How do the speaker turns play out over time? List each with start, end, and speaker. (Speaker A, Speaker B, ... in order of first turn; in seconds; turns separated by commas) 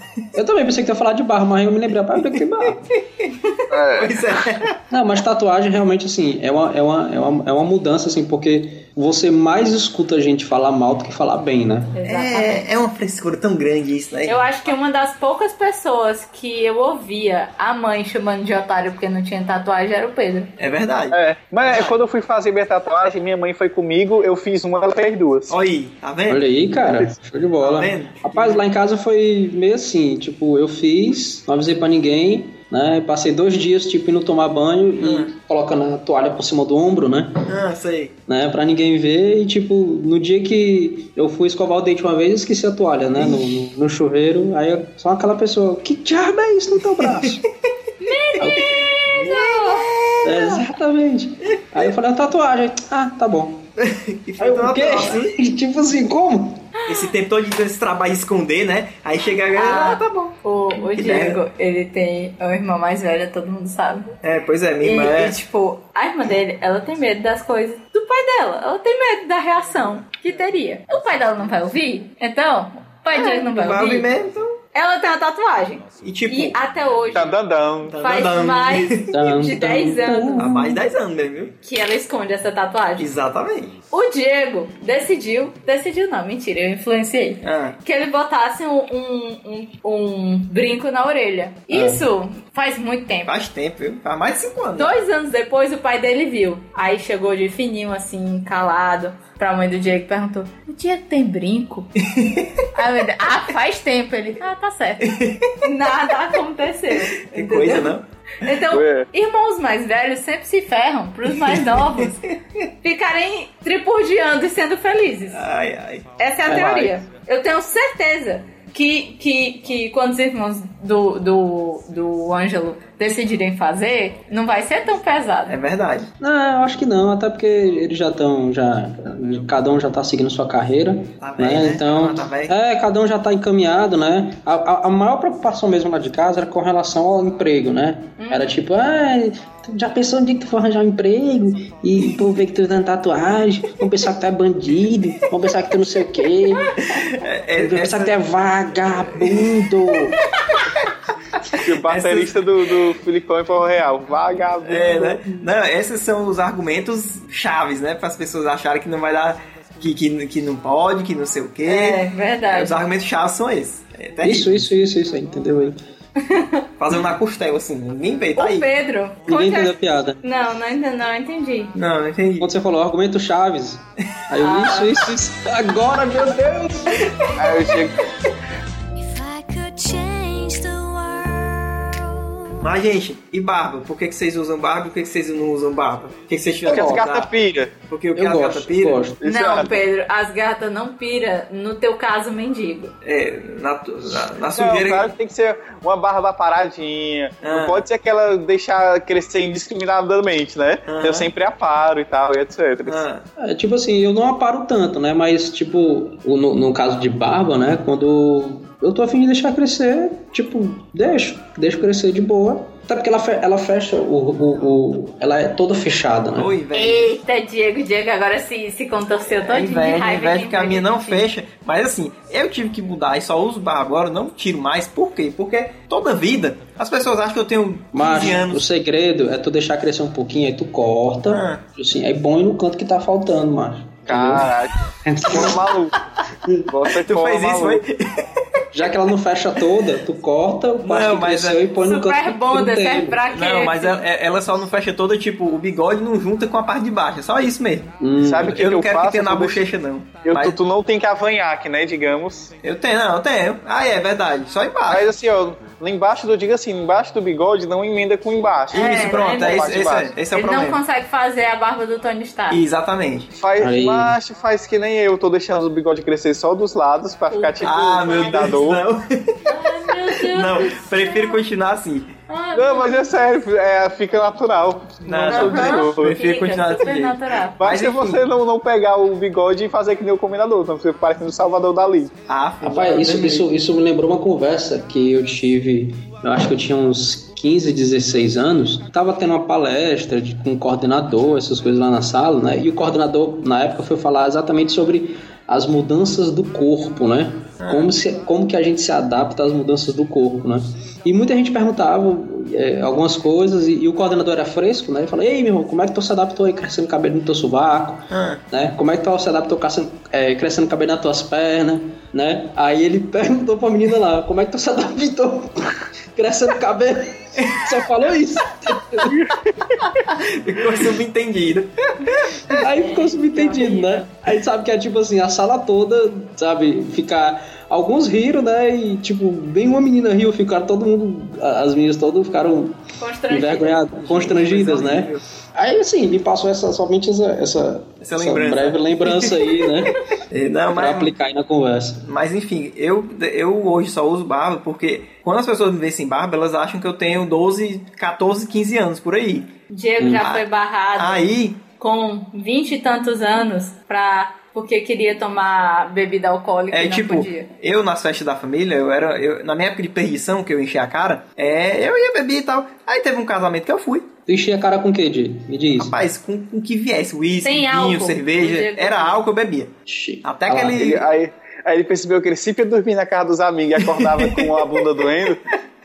Speaker A: 0.3-2.9, Speaker B: 2.2-3.3, Speaker C: 3.7-4.2, Speaker B: 3.9-4.8, Speaker A: 4.9-12.0, Speaker D: 11.9-12.6, Speaker B: 12.1-14.4, Speaker D: 14.3-20.5, Speaker B: 20.6-22.0, Speaker C: 21.1-25.6, Speaker B: 25.5-26.5, Speaker A: 26.3-37.5, Speaker B: 27.6-28.6, Speaker B: 35.0-35.3, Speaker B: 37.5-38.1, Speaker A: 38.3-47.4, Speaker B: 43.2-43.6, Speaker B: 47.0-47.4, Speaker D: 48.0-50.6, Speaker A: 48.4-48.7, Speaker B: 49.0-50.4, Speaker A: 50.2-53.7, Speaker B: 51.5-51.8, Speaker B: 53.8-55.3, Speaker A: 54.4-56.7, Speaker B: 56.9-61.4, Speaker D: 59.5-64.2, Speaker B: 64.2-65.4, Speaker D: 64.8-74.1, Speaker B: 73.1-74.6, Speaker D: 74.7-77.3, Speaker B: 76.0-76.6, Speaker C: 77.1-78.0, Speaker B: 77.9-79.1, Speaker D: 78.0-80.5, Speaker A: 79.1-80.8, Speaker B: 80.4-81.5, Speaker D: 81.6-83.1, Speaker B: 83.0-83.8, Speaker D: 83.9-93.3, Speaker B: 87.4-87.8, Speaker B: 93.3-95.0, Speaker D: 94.8-101.9, Speaker B: 102.1-102.6, Speaker D: 102.7-112.2, Speaker B: 105.0-105.6, Speaker B: 107.2-108.1, Speaker C: 108.7-109.1, Speaker B: 111.5-112.3, Speaker D: 112.8-115.4, Speaker B: 115.3-116.1, Speaker D: 116.2-125.6, Speaker A: 116.5-116.9, Speaker C: 116.5-116.9, Speaker B: 125.5-126.1, Speaker A: 126.2-147.1, Speaker B: 131.2-132.6, Speaker D: 138.2-138.6, Speaker B: 146.8-148.2, Speaker A: 147.6-150.2, Speaker B: 149.2-149.5, Speaker B: 151.5-152.5, Speaker C: 151.5-155.3, Speaker B: 154.6-164.6, Speaker D: 161.7-162.8, Speaker A: 164.2-165.8, Speaker D: 166.2-166.7, Speaker B: 166.8-168.7, Speaker D: 168.4-171.8, Speaker A: 169.3-170.2, Speaker B: 171.8-172.5, Speaker A: 172.4-177.1, Speaker D: 174.4-175.0, Speaker B: 176.9-177.4, Speaker C: 177.4-178.0, Speaker E: 178.9-182.7, Speaker B: 182.6-187.3, Speaker C: 186.7-187.7, Speaker B: 187.9-189.0, Speaker A: 188.1-189.2, Speaker C: 189.2-189.7, Speaker D: 189.2-192.9, Speaker B: 193.0-195.1, Speaker C: 194.5-203.1, Speaker B: 197.4-197.8, Speaker B: 200.9-201.3, Speaker B: 202.9-203.2, Speaker A: 203.4-216.5, Speaker B: 216.3-217.2, Speaker D: 216.7-221.3, Speaker B: 219.3-228.6, Speaker A: 227.9-234.5, Speaker B: 231.3-231.6, Speaker C: 234.1-234.7, Speaker A: 235.1-235.8, Speaker C: 235.3-236.0, Speaker A: 236.4-236.7, Speaker C: 236.7-237.8, Speaker B: 237.0-238.6, Speaker A: 238.7-243.2, Speaker B: 240.8-241.7, Speaker D: 241.8-244.0, Speaker B: 243.3-248.0, Speaker A: 248.0-248.6, Speaker C: 248.2-249.7, Speaker B: 248.5-250.6, Speaker C: 250.2-252.6, Speaker B: 252.6-255.1, Speaker C: 254.9-260.1, Speaker B: 258.7-260.8, Speaker D: 258.7-259.8, Speaker D: 260.3-262.6, Speaker B: 262.5-263.3, Speaker C: 263.3-268.8, Speaker A: 263.6-264.1, Speaker D: 267.3-268.4, Speaker B: 267.6-269.4, Speaker D: 269.4-271.4, Speaker B: 270.1-272.1, Speaker D: 272.3-273.1, Speaker C: 272.5-276.2, Speaker B: 275.1-278.2, Speaker D: 275.3-277.6, Speaker C: 277.6-282.1, Speaker B: 282.3-283.5, Speaker A: 282.6-319.3, Speaker B: 297.6-297.9, Speaker B: 308.1-308.4, Speaker B: 317.4-317.8, Speaker B: 319.9-322.6, Speaker D: 322.5-324.1, Speaker A: 322.6-340.0, Speaker D: 333.0-333.8, Speaker B: 334.0-335.2, Speaker B: 338.0-339.7, Speaker B: 340.3-341.1, Speaker A: 340.7-342.1, Speaker B: 342.1-349.5, Speaker D: 349.7-351.2, Speaker A: 350.0-350.3, Speaker B: 350.1-350.4, Speaker B: 351.0-351.6, Speaker D: 351.8-357.5, Speaker B: 356.7-364.1, Speaker A: 364.3-365.9, Speaker B: 365.8-371.1, Speaker D: 367.4-369.2, Speaker A: 369.9-370.9, Speaker C: 370.8-375.4, Speaker B: 374.0-375.3